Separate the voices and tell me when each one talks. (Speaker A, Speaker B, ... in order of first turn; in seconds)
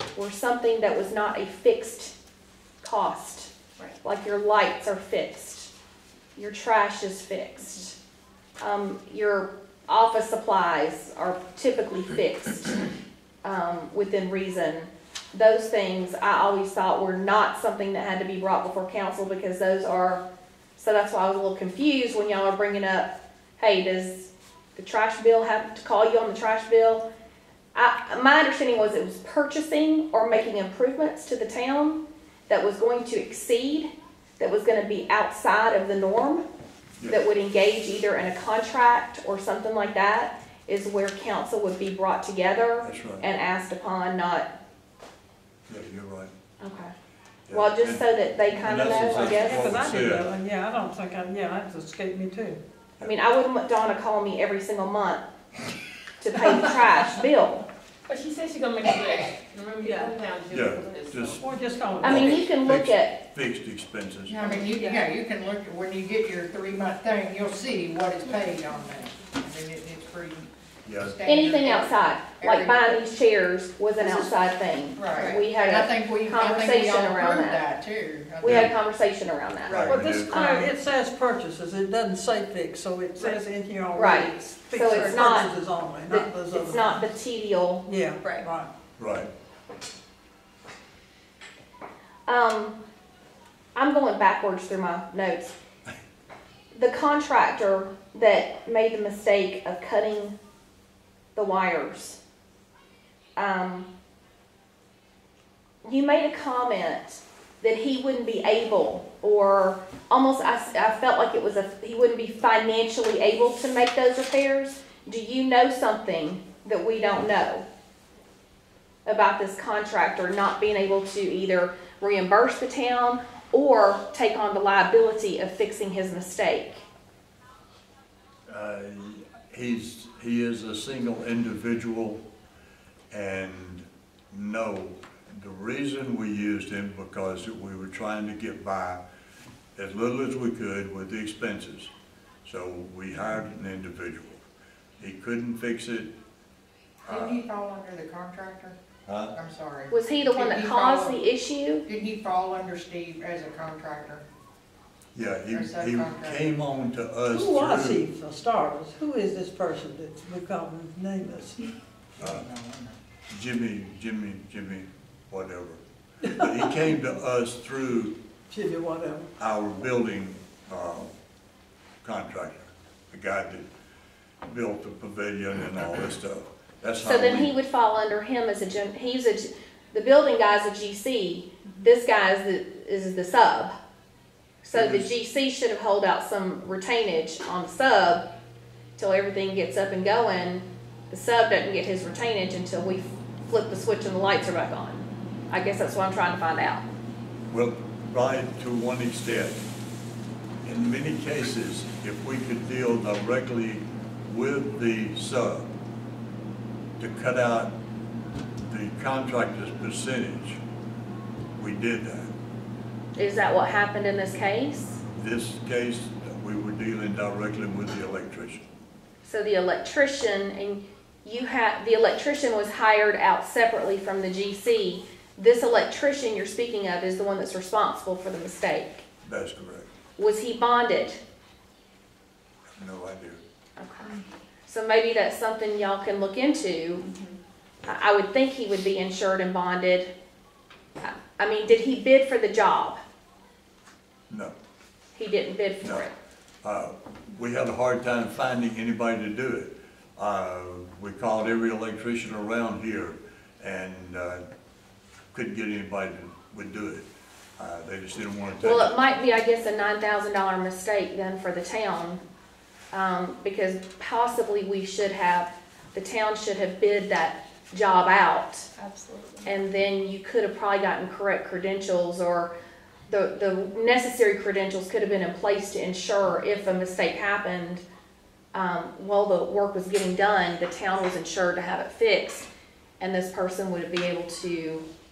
Speaker A: 0.1-2.1, 2.8-3.5, 4.0-5.7, 6.3-8.0, 8.6-12.8, 13.4-20.2, 20.8-27.1, 27.7-36.5, 37.0-44.5, 46.6-46.9, 47.5-49.7, 53.0-55.2, 56.2-57.7, 62.0-63.2, 71.3-77.7, 78.4-80.7, 84.0-85.5, 86.1-87.9, 92.3-92.8, 93.8-95.5, 96.7-100.4, 101.3-102.2, 103.4-103.9, 105.8-117.7, 119.1-126.8, 149.9-151.8, 177.0-183.7, 184.6-188.3, 189.0-196.8, 213.2-215.0, 219.2-229.0, 230.2-231.2, 233.8-237.1, 237.8-240.1, 241.0-243.0, 245.1-246.1, 258.6-262.2, 262.9-268.7, 269.4-272.5, 273.1-277.8, 278.5-282.5, 283.0-284.9
Speaker B: 42.8-43.3, 45.7-46.3, 47.5-50.3, 60.5-61.4, 62.0-64.4, 70.8-71.2, 78.5-78.7, 79.7-80.3, 89.0-89.3, 128.5-132.2, 133.1-139.0, 139.8-141.9, 142.4-144.4, 145.0-146.1, 147.0-147.4, 149.1-149.3, 155.1-158.0, 162.2-162.5, 163.3-168.2, 169.4-171.1, 172.0-173.7, 174.4-177.5, 184.7-185.0, 197.5-199.6, 200.6-205.7, 207.0-207.8, 208.7-210.6, 211.6-212.3, 215.2-218.6, 229.2-229.9, 232.8-233.4, 244.3-244.5, 246.6-254.4, 255.3-257.1, 257.6-258.9
Speaker C: 48.9-52.6, 61.3-62.4, 79.9-87.0, 87.9-88.7, 157.3-161.7, 168.5-169.3
Speaker D: 58.1-61.4, 64.5-65.1, 75.1-75.5, 79.7-80.0, 84.9-85.5, 88.2-88.5, 268.8-269.5
Speaker E: 64.3-73.0, 74.0-74.3, 75.0-78.8, 147.1-148.8, 149.3-151.2, 151.8-154.2, 155.5-156.4, 162.2-163.0